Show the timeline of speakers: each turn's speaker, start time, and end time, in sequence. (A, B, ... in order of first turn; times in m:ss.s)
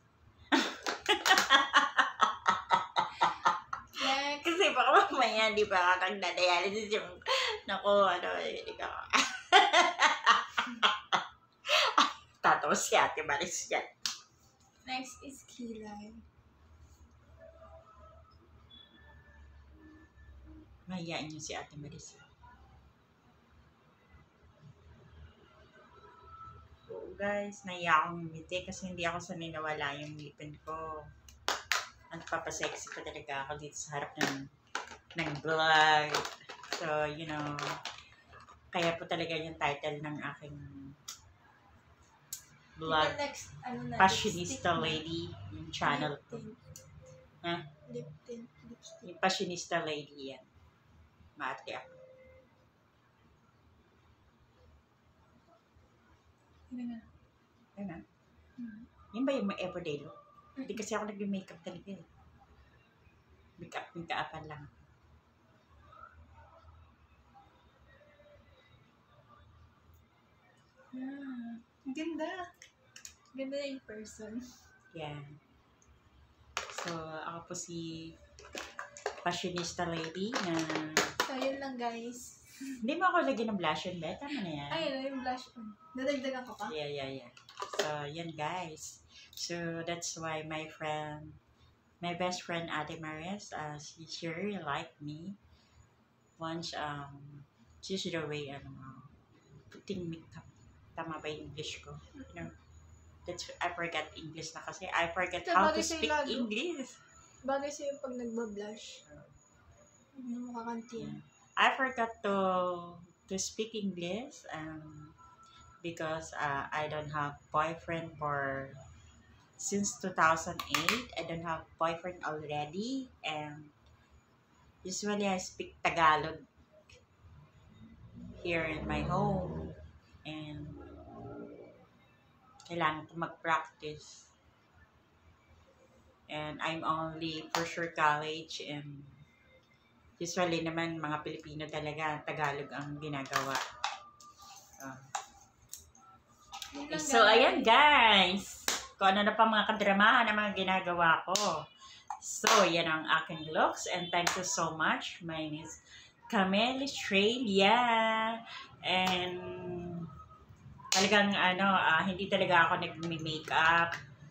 0:00.5-0:11.2 A
0:04.0-0:04.6 B
0:11.8-0:13.9 A
0:14.8-0:16.2 B
0:20.9-0:22.2 A
0:26.9-0:31.1 A
0:32.1-0:34.5 A
0:35.1-0:37.8 A
0:38.7-0:41.0 A
0:42.8-0:43.2 A
0:42.8-0:45.0 B
0:44.0-0:46.4 A
0:45.8-0:46.6 B
0:47.8-0:49.1 B
0:49.0-0:50.4 A
0:51.4-0:52.0 A
0:56.7-0:57.1 B
0:57.8-0:58.0 A
0:58.6-0:58.9 B
0:59.1-1:02.0 A
1:03.6-1:04.9 A
1:10.9-1:12.5 B
1:13.3-1:14.6 B
1:14.9-1:15.3 A
1:16.7-1:18.2 A
1:19.2-1:21.1 A
1:21.2-1:22.8 B
1:22.8-1:24.9 A
1:24.7-1:26.7 B
1:26.7-1:31.4 A
1:32.0-1:35.4 A
1:36.4-1:39.1 A
1:39.7-1:42.5 A
1:43.2-1:47.0 A
1:45.4-1:46.5 B
1:47.4-1:49.0 B
1:49.0-1:49.3 A
1:50.1-1:51.2 B
1:51.0-1:55.1 A
1:55.8-1:58.8 A
1:59.6-2:03.7 A
2:04.8-2:06.4 A
2:08.4-2:11.0 A
2:12.7-2:14.2 A
2:16.3-2:19.2 A
2:20.2-2:23.6 A
2:24.8-2:25.0 A
2:26.7-2:27.7 B
2:26.9-2:31.5 A
2:32.2-2:35.8 A
2:36.3-2:40.1 A
2:40.9-2:43.9 A